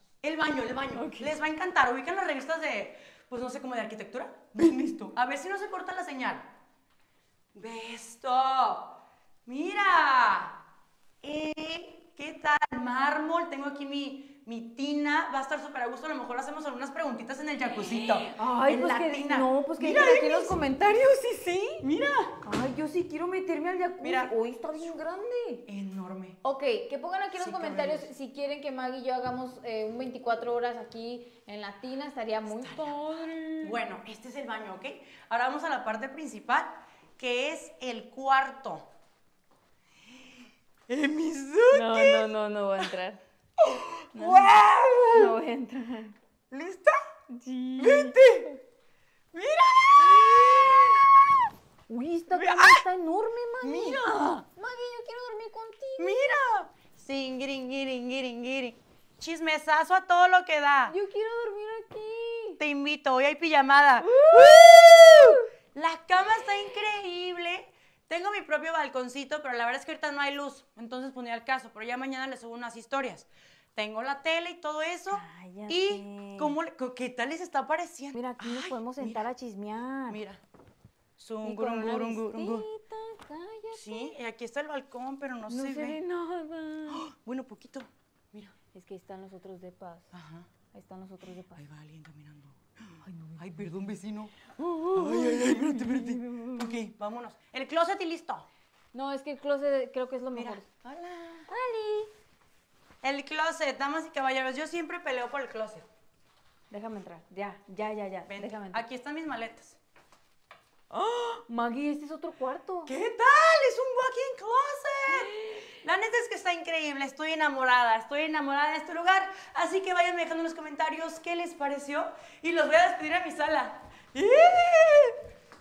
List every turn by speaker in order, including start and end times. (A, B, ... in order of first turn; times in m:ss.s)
0:00.2-0:06.5 A
0:01.0-0:01.3 B
0:07.6-0:10.6 A
0:11.2-0:20.6 A
0:17.8-0:21.8 B
0:21.8-0:22.4 A
0:22.4-0:25.6 B
0:24.0-0:24.4 A
0:25.7-0:26.4 A
0:26.4-0:33.8 B
0:27.4-0:28.1 A
0:32.5-0:38.9 A
0:40.9-0:42.9 A
0:41.7-0:43.2 B
0:43.6-0:45.4 A
0:44.1-0:44.6 B
0:45.1-0:46.2 B
0:46.5-0:47.0 A
0:47.3-0:48.5 B
0:47.8-0:48.6 A
0:49.3-0:51.3 A
0:50.0-0:51.0 B
0:51.9-0:56.2 B
0:52.3-0:52.8 A
0:53.6-0:54.4 A
0:56.0-1:01.0 A
1:00.9-1:02.6 B
1:02.6-1:19.2 A
1:04.0-1:05.4 B
1:15.1-1:16.6 B
1:18.1-1:20.2 B
1:20.1-1:20.4 A
1:21.2-1:22.7 A
1:21.4-1:24.1 B
1:23.7-1:26.0 A
1:25.5-1:27.1 B
1:26.9-1:28.5 A
1:28.7-1:30.1 B
1:30.1-1:30.5 A
1:30.7-1:31.6 B
1:31.6-1:38.5 A
1:33.0-1:33.6 B
1:34.6-1:36.8 B
1:38.9-1:40.7 B
1:40.3-1:41.5 A
1:41.5-1:42.1 B
1:43.0-1:45.9 A
1:46.7-1:48.8 B
1:48.3-1:49.8 A
1:50.9-1:52.9 B
1:52.9-2:05.2 A
1:55.1-1:55.6 B